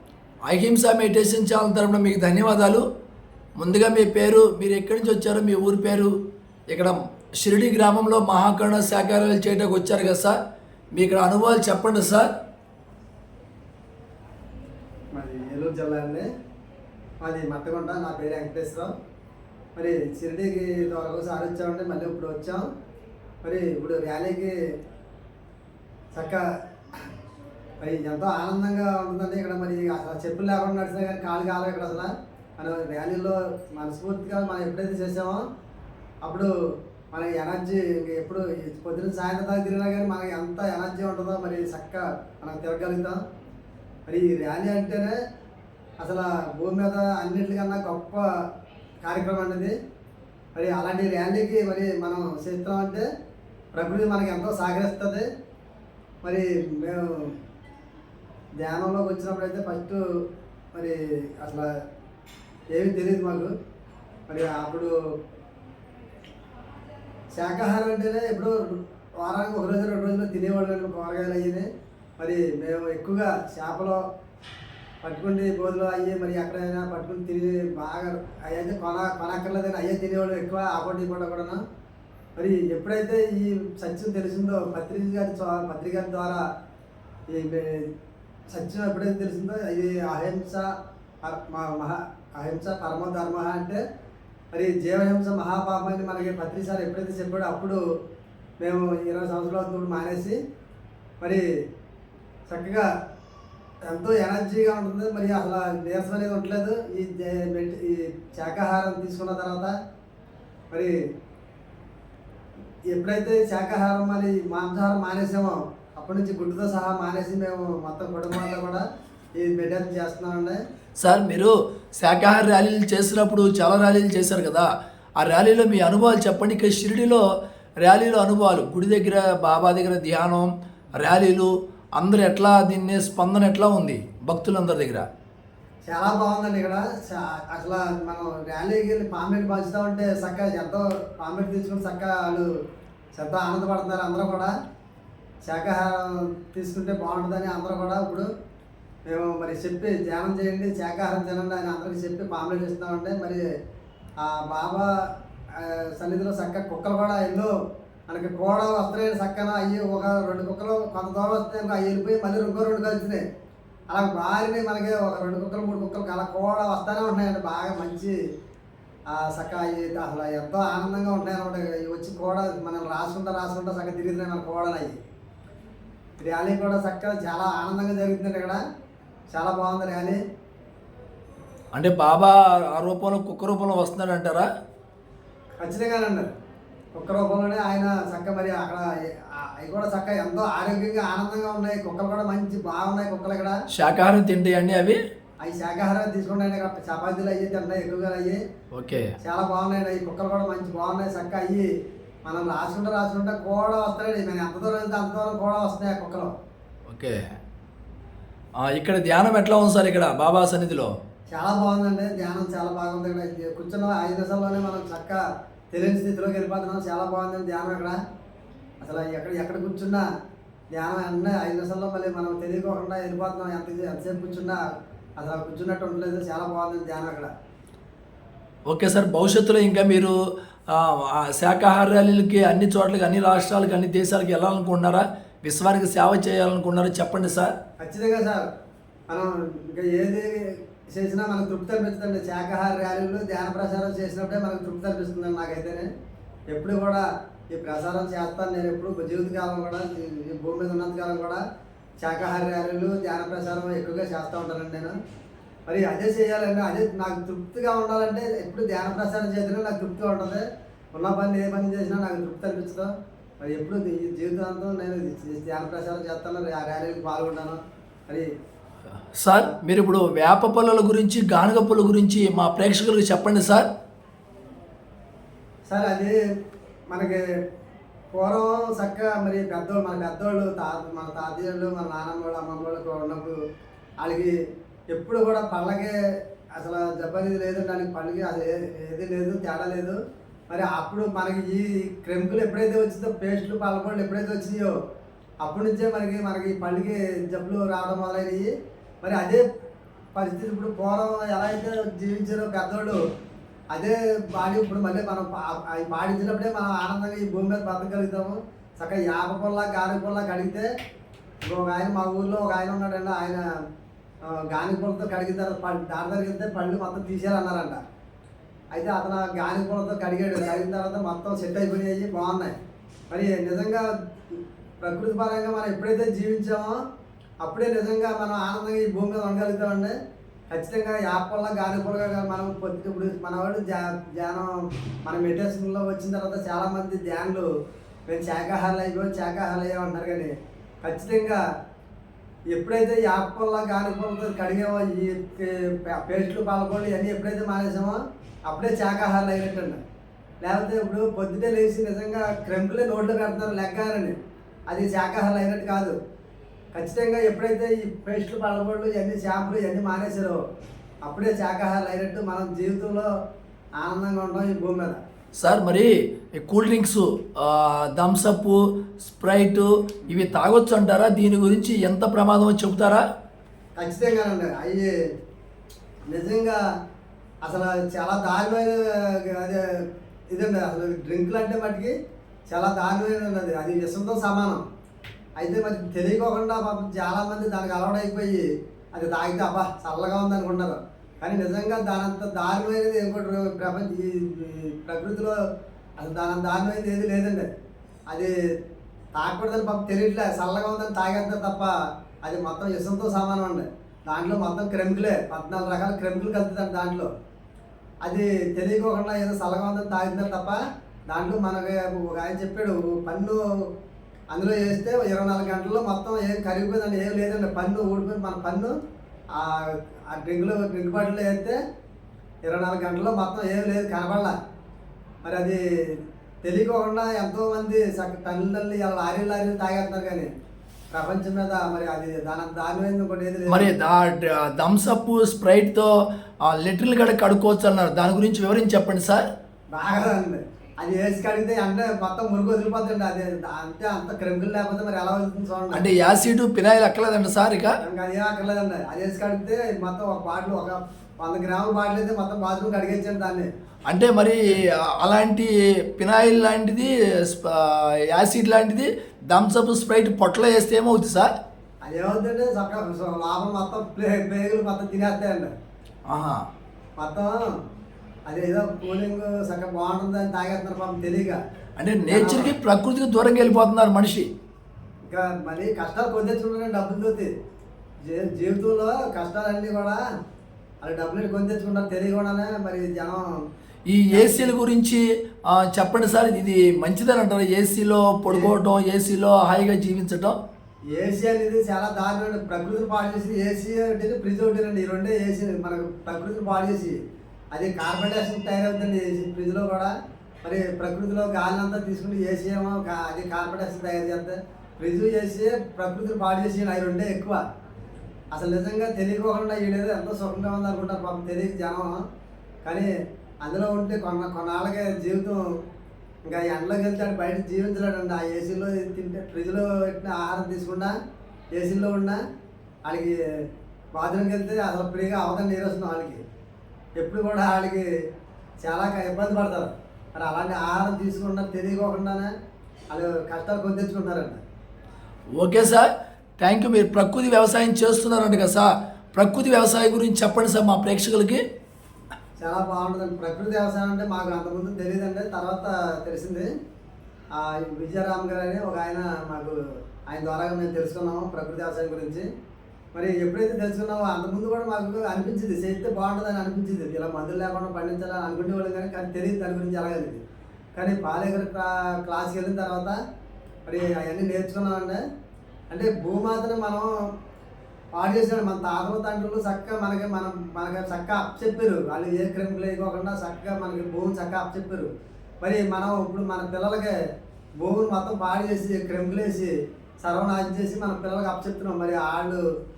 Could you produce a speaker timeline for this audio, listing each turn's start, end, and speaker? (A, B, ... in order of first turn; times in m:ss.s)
0:00.5-0:02.8 A
0:03.6-0:06.1 A
0:06.7-0:10.3 A
0:10.9-0:12.3 A
0:15.1-0:16.3 B
0:17.2-0:18.9 B
0:19.8-0:22.6 B
0:23.4-0:24.5 B
0:26.1-0:26.4 B
0:27.8-0:35.4 B
0:36.2-0:36.5 B
0:37.1-0:43.2 B
0:44.1-0:45.2 B
0:46.0-0:48.2 B
0:49.0-0:49.7 B
0:50.5-0:53.0 B
0:53.7-0:55.2 B
0:56.2-0:57.4 B
0:58.6-1:00.0 B
1:00.7-1:01.7 B
1:02.7-1:03.5 B
1:04.3-1:04.9 B
1:07.3-1:11.7 B
1:12.2-1:14.0 B
1:15.0-1:21.6 B
1:22.4-1:26.4 B
1:27.3-1:27.9 B
1:28.5-1:30.7 B
1:31.2-1:33.8 B
1:34.5-1:37.8 B
1:38.6-1:40.4 B
1:42.5-1:42.9 B
1:43.8-1:49.7 B
1:50.7-1:51.0 B
1:52.9-1:58.8 B
1:59.4-2:00.6 B
2:01.0-2:04.7 A
2:05.2-2:07.2 A
2:07.8-2:15.0 A
2:15.8-2:22.5 B
2:23.1-2:24.5 B
2:25.4-2:28.3 B
2:29.1-2:33.4 B
2:34.2-2:34.9 B
2:35.5-2:37.6 B
2:38.1-2:43.2 B
2:43.9-2:48.1 B
2:49.1-2:55.0 B
2:56.2-2:58.6 B
2:59.3-3:00.2 B
3:01.7-3:04.4 A
3:05.6-3:06.3 B
3:06.9-3:13.6 B
3:13.7-3:15.0 A
3:15.4-3:18.4 B
3:18.7-3:19.1 A
3:19.2-3:21.7 B
3:22.2-3:26.3 B
3:26.9-3:27.2 A
3:28.6-3:30.9 A
3:31.3-3:38.0 B
3:38.8-3:40.0 B
3:40.7-3:44.6 B
3:45.2-3:47.3 B
3:48.7-3:50.1 A
3:50.7-3:57.5 A
3:57.8-3:58.5 B
3:59.1-4:05.9 B
4:06.5-4:11.4 B
4:12.0-4:14.9 B
4:15.7-4:20.4 B
4:20.9-4:28.3 B
4:29.2-4:33.7 A
4:35.7-4:36.1 B
4:36.9-4:37.2 B
4:38.1-4:43.4 B
4:44.0-4:44.4 B
4:44.9-4:45.9 B
4:46.6-4:50.0 B
4:50.5-4:54.7 B
4:55.4-4:58.5 B
4:59.0-4:59.4 B
5:00.1-5:03.0 B
5:03.7-5:10.7 B
5:11.5-5:13.4 B
5:14.2-5:17.8 B
5:18.7-5:22.5 B
5:23.1-5:26.8 B
5:27.4-5:29.9 B
5:30.5-5:34.5 B
5:35.0-5:37.5 B
5:38.1-5:40.3 B
5:40.8-5:41.4 B
5:42.5-5:49.8 B
5:50.4-5:54.1 B
5:54.7-5:55.9 B
5:56.7-6:00.4 B
6:01.0-6:03.1 B
6:03.8-6:05.0 B
6:05.4-6:13.0 A
6:13.8-6:14.9 B
6:16.1-6:16.6 B
6:17.4-6:19.6 B
6:20.3-6:21.9 B
6:22.5-6:24.6 B
6:25.4-6:35.3 B
6:36.0-6:37.5 B
6:39.1-6:41.7 B
6:42.2-6:47.1 B
6:48.0-6:53.4 B
6:54.3-6:58.7 B
6:59.3-7:01.6 B
7:02.4-7:04.3 B
7:05.2-7:10.3 B
7:10.9-7:13.7 B
7:13.5-7:15.9 A
7:16.4-7:19.2 A
7:19.7-7:25.8 B
7:25.7-7:27.8 A
7:27.8-7:33.5 B
7:33.9-7:41.3 A
7:41.8-7:45.5 B
7:46.1-7:46.4 A
7:47.0-7:47.5 B
7:48.3-7:51.4 B
7:51.8-7:54.3 A
7:52.1-7:52.5 B
7:55.1-7:57.3 B
7:58.0-8:00.0 B
8:00.8-8:03.2 B
8:03.9-8:10.4 A
8:04.1-8:04.5 B
8:10.9-8:17.0 B
8:17.5-8:19.9 B
8:20.4-8:27.4 B
8:28.3-8:32.0 B
8:32.6-8:32.9 B
8:33.4-8:35.4 B
8:36.2-8:40.9 B
8:41.5-8:42.2 B
8:42.8-8:43.2 B
8:43.9-8:46.2 B
8:47.0-8:47.8 B
8:48.6-8:52.3 B
8:52.9-8:54.4 B
8:55.4-9:01.4 A
9:02.4-9:06.5 B
9:07.3-9:12.2 B
9:12.9-9:20.2 B
9:20.7-9:23.0 B
9:23.7-9:25.0 B
9:25.7-9:26.9 B
9:27.9-9:36.9 B
9:37.6-9:42.4 B